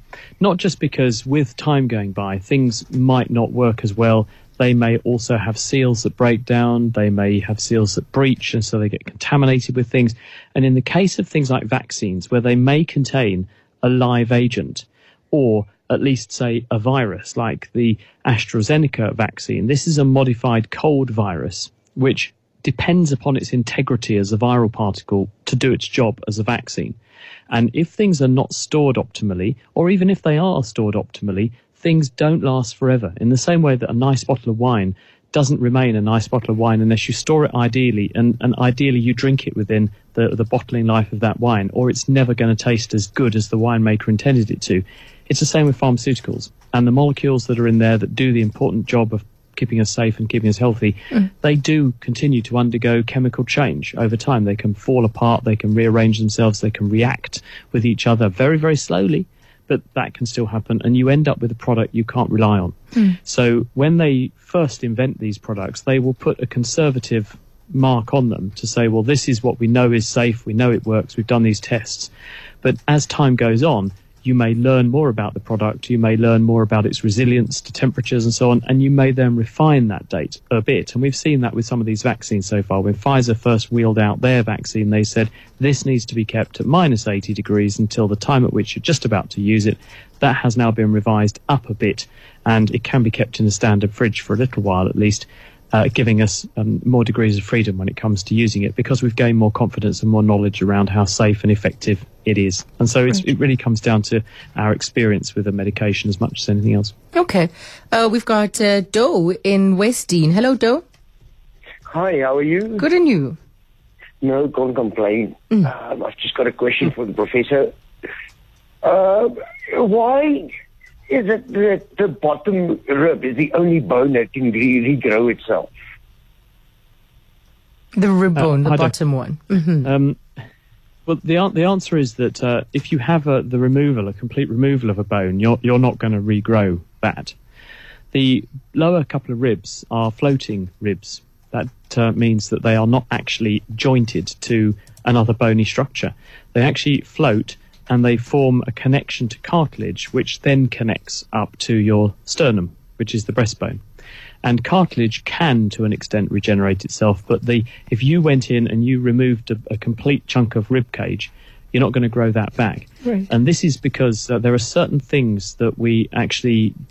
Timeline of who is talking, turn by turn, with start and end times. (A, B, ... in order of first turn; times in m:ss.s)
0:00.4-0:27.0 A
0:27.5-1:12.1 A
1:12.6-1:46.9 A
1:47.1-1:50.8 B
1:51.9-1:52.6 C
1:52.8-1:53.4 B
1:54.2-1:57.7 C
1:58.8-2:00.5 C
2:01.1-2:05.7 C
2:07.9-2:09.9 B
2:08.4-2:08.9 A
2:09.8-2:10.2 A
2:11.1-2:17.3 A
2:18.1-2:33.8 A
2:34.4-2:46.7 A